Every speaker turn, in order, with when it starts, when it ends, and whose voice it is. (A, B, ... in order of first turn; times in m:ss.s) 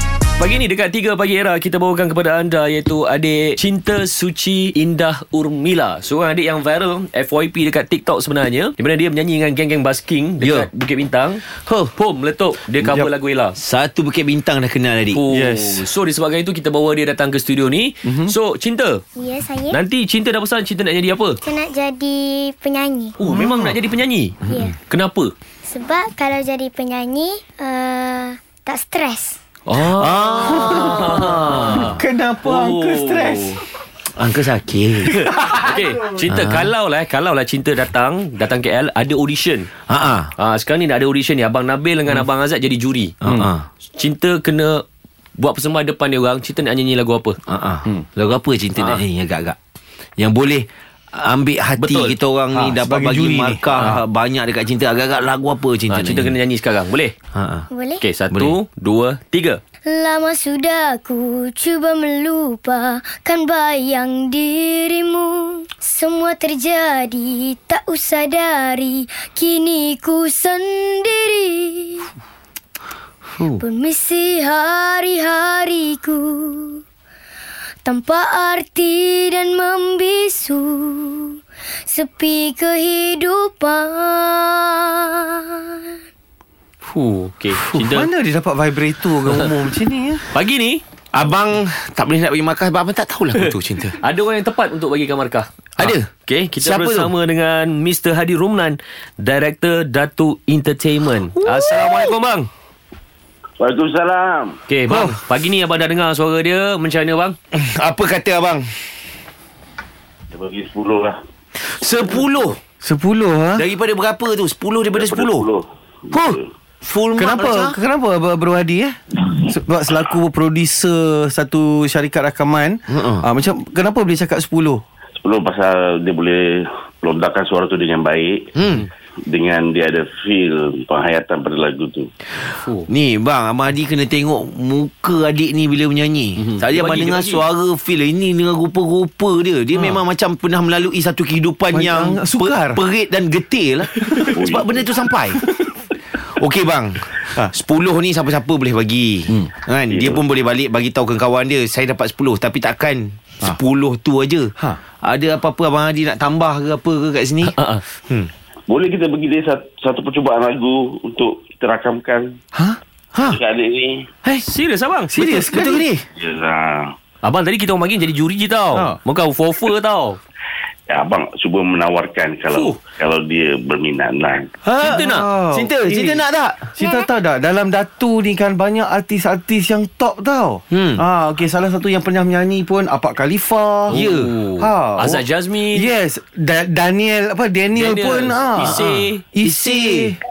0:00.4-0:13.6 A
0:10.4-0:10.7 B
0:11.5-0:11.9 B
0:12.8-0:13.1 C
0:13.6-0:15.2 B
0:15.1-0:19.0 A
0:15.3-0:15.9 C
0:18.0-0:18.3 C
0:19.2-0:19.8 D
0:19.7-0:21.4 A
0:21.4-0:23.2 D
0:23.2-0:25.3 A
0:23.3-0:23.7 C
0:24.5-0:24.8 D
0:25.6-0:29.4 D
0:29.7-0:33.6 A
0:29.8-0:31.8 B
0:30.6-0:33.6 C
0:34.1-0:35.1 B
0:35.1-0:39.7 A
0:36.2-0:36.7 B
0:39.9-0:40.3 B
0:40.4-0:43.2 A
0:43.2-0:43.6 B
0:44.0-0:44.8 A
0:45.4-0:48.0 A
0:47.5-0:49.6 B
0:48.8-0:49.0 A
0:50.2-0:56.4 B
0:51.8-0:52.2 A
0:52.5-0:54.0 C
0:55.9-0:57.1 A
0:57.3-0:57.7 B
0:57.7-0:58.0 D
0:58.0-0:59.6 A
0:58.3-0:58.6 B
0:59.9-1:12.1 D
1:13.6-1:16.8 D
1:17.8-1:25.8 D
1:26.9-1:28.1 A
1:27.6-1:30.3 C
1:29.3-1:29.5 A
1:30.3-1:30.8 A
1:31.1-1:34.0 B
1:33.4-1:42.5 A
1:35.8-1:36.1 B
1:36.6-1:37.1 B
1:41.4-1:42.2 B
1:43.6-1:44.6 E
1:44.7-1:47.4 A
1:44.9-1:45.2 C
1:47.5-1:48.7 B
1:50.3-1:51.2 E
1:51.6-1:52.6 B
1:52.8-1:53.6 C
1:53.6-1:55.5 B
1:54.9-1:56.5 E
1:56.1-1:57.8 B
1:57.2-2:04.8 C
2:02.9-2:03.3 B
2:05.2-2:08.5 E
2:08.6-2:08.9 B
2:09.2-2:12.1 E
2:12.9-2:25.4 B
2:16.4-2:17.4 A
2:19.8-2:20.0 C
2:21.7-2:22.8 C
2:23.9-2:24.4 C
2:24.3-2:24.8 E
2:25.4-2:25.7 C
2:26.1-2:37.6 B
2:29.9-2:30.2 E
2:37.4-2:37.8 A
2:38.7-2:42.4 E
2:42.5-2:43.4 C
2:43.3-2:44.1 E
2:44.4-2:45.1 A
2:45.1-2:45.8 C
2:45.1-2:46.0 B
2:46.2-2:46.9 E
2:47.2-2:50.2 A
2:50.9-2:54.5 E
2:52.5-2:52.8 A
2:54.7-3:04.0 C
2:54.7-2:56.7 B
2:54.8-2:55.3 A
2:56.8-2:57.1 D
3:00.7-3:01.0 B
3:03.9-3:04.3 B
3:03.9-3:05.9 A
3:04.6-3:05.2 C
3:05.7-3:08.8 C
3:07.8-3:09.2 A
3:08.6-3:10.2 B
3:09.3-3:10.2 C